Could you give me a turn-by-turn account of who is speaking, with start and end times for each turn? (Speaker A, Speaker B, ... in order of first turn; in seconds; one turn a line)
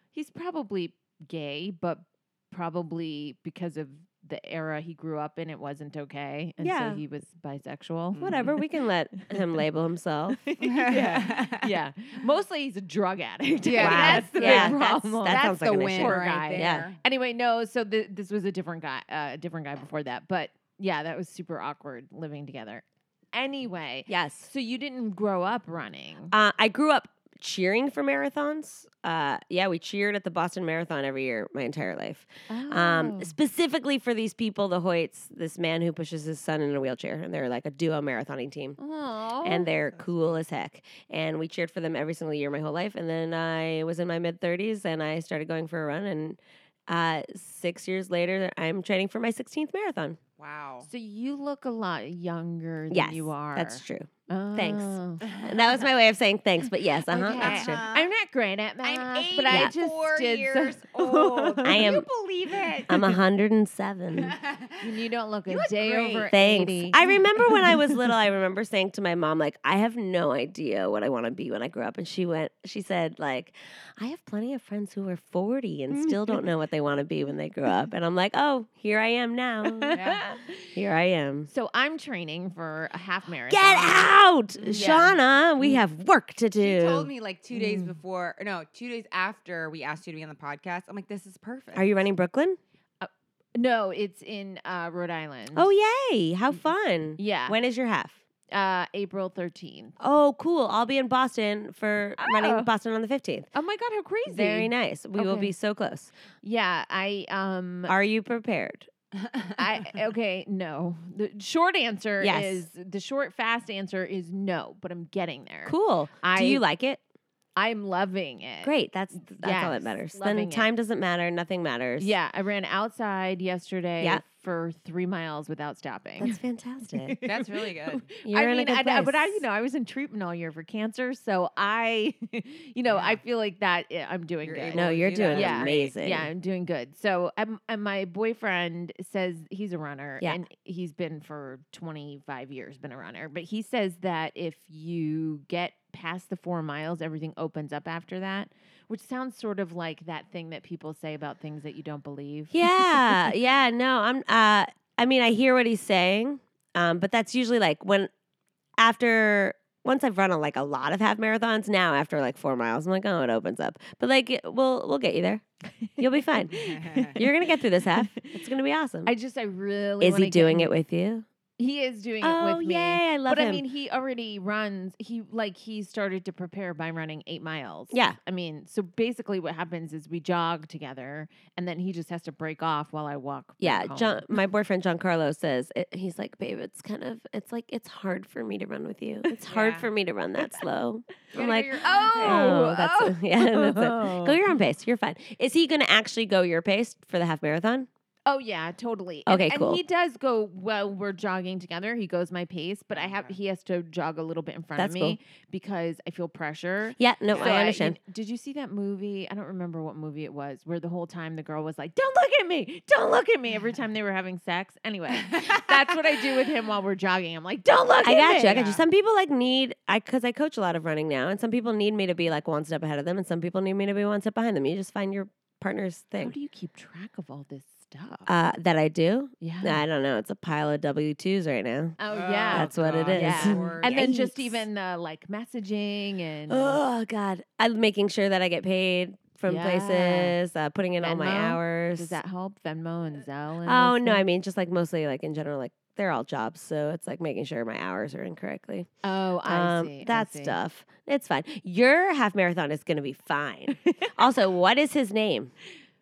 Speaker A: 0.1-8.6
Speaker B: 6.6-7.0
Speaker C: 8.1-8.5
Speaker B: 8.2-10.4
Speaker A: 10.4-26.3
Speaker C: 10.6-11.7
Speaker C: 13.6-17.0
Speaker B: 13.8-16.9
Speaker B: 24.1-24.5
Speaker B: 26.3-38.8
Speaker A: 32.5-33.3
Speaker A: 38.8-39.7
Speaker B: 39.4-50.2
Speaker C: 39.8-40.4
Speaker C: 50.4-50.9
Speaker A: 50.8-55.3
Speaker B: 52.9-57.8
Speaker C: 55.2-55.6
Speaker A: 57.0-61.9
Speaker C: 57.3-58.1
Speaker C: 58.8-63.2
Speaker B: 61.6-62.0
Speaker B: 62.9-64.4
Speaker C: 64.1-64.8
Speaker A: 64.8-68.0
Speaker C: 65.5-66.3
Speaker B: 66.3-80.0
Speaker A: 75.9-76.4
Speaker A: 79.6-80.7
Speaker C: 79.9-80.2
Speaker B: 80.7-81.5
Speaker A: 81.5-85.8
Speaker B: 83.5-87.1
Speaker C: 86.6-91.9
Speaker A: 87.5-87.9
Speaker B: 91.7-92.6
Speaker A: 93.0-95.7
Speaker B: 95.5-98.2
Speaker A: 97.2-97.6
Speaker A: 98.5-100.0
Speaker B: 100.0-103.5
Speaker A: 102.2-102.7
Speaker A: 103.5-105.5
Speaker B: 104.2-106.1
Speaker A: 106.4-107.9
Speaker B: 107.9-108.9
Speaker C: 109.2-109.6
Speaker A: 109.5-116.6
Speaker B: 112.2-112.6
Speaker B: 115.7-117.0
Speaker A: 117.5-120.7
Speaker B: 118.6-122.1
Speaker A: 122.0-126.4
Speaker B: 126.2-127.2
Speaker A: 127.0-153.2
Speaker C: 127.2-128.1
Speaker B: 128.2-129.4
Speaker C: 132.9-133.2
Speaker C: 134.4-135.9
Speaker B: 134.7-136.3
Speaker B: 152.5-158.1
Speaker B: 158.8-165.4
Speaker B: 166.0-169.1
Speaker A: 166.5-167.3
Speaker C: 166.6-167.1
Speaker A: 167.8-168.3
Speaker A: 169.1-170.7
Speaker B: 170.0-171.2
Speaker A: 171.6-184.3
Speaker B: 172.2-173.6
Speaker B: 177.9-178.2
Speaker B: 183.6-197.9
Speaker C: 189.5-189.9
Speaker C: 191.3-192.6
Speaker A: 191.8-194.4
Speaker A: 198.2-218.7
Speaker B: 199.3-199.8
Speaker C: 202.9-203.3
Speaker B: 204.8-205.2
Speaker B: 207.0-208.0
Speaker C: 215.3-215.6
Speaker B: 218.0-226.3
Speaker C: 218.4-218.8
Speaker A: 226.2-228.3
Speaker B: 228.3-232.0
Speaker A: 229.4-229.8
Speaker A: 232.0-236.8
Speaker C: 232.1-234.0
Speaker B: 232.5-234.6
Speaker B: 236.5-242.2
Speaker A: 239.4-240.4
Speaker A: 241.0-244.2
Speaker B: 243.6-248.9
Speaker A: 249.0-250.6
Speaker B: 249.4-255.5
Speaker A: 253.8-254.2